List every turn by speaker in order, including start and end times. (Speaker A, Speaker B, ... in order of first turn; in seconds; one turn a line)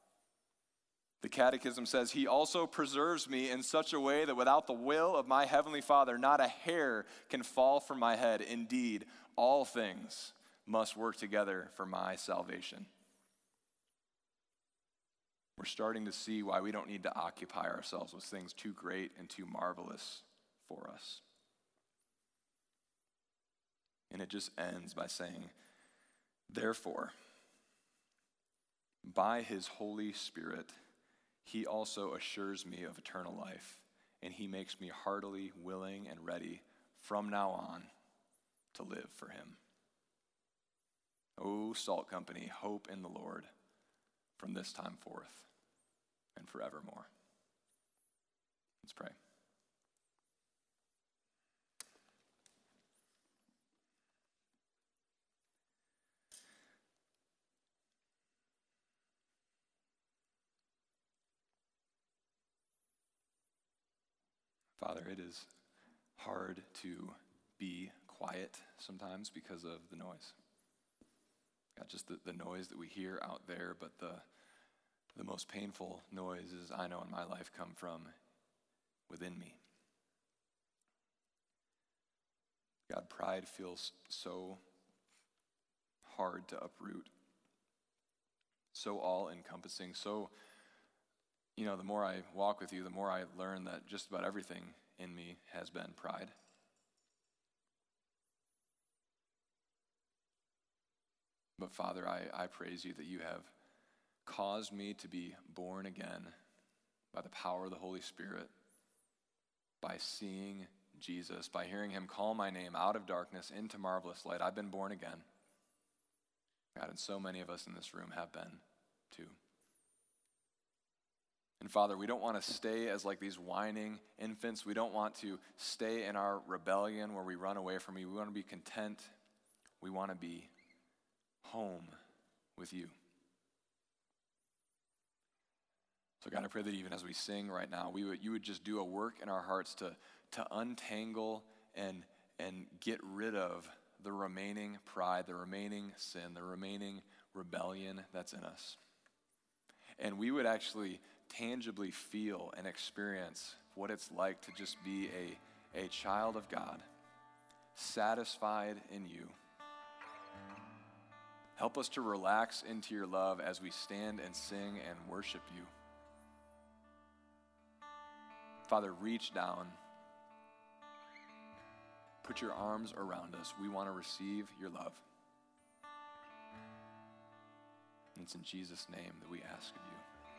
Speaker A: 1.2-12.9
Speaker A: 15.6-21.2
Speaker A: 24.1-25.5
Speaker A: 26.5-27.1
Speaker A: 29.0-30.7
Speaker A: 31.4-37.9
Speaker A: 38.7-39.6
Speaker A: 41.4-43.5
Speaker A: 44.4-45.5
Speaker A: 46.4-47.1
Speaker A: 48.8-49.1
Speaker A: 64.8-65.5
Speaker A: 66.2-70.4
Speaker A: 71.8-74.2
Speaker A: 75.1-78.1
Speaker A: 79.1-79.6
Speaker A: 82.9-84.6
Speaker A: 86.0-87.1
Speaker A: 88.7-90.3
Speaker A: 91.5-96.3
Speaker A: 101.6-103.5
Speaker A: 104.2-106.3
Speaker A: 107.1-108.5
Speaker A: 109.8-115.2
Speaker A: 116.7-119.4
Speaker A: 121.6-129.1
Speaker A: 129.8-130.5
Speaker A: 131.4-131.9
Speaker A: 132.6-132.9
Speaker A: 136.2-148.8
Speaker A: 150.0-156.8
Speaker A: 157.7-159.4
Speaker A: 161.6-165.7
Speaker A: 168.7-169.8
Speaker A: 172.2-175.0
Speaker A: 178.1-180.0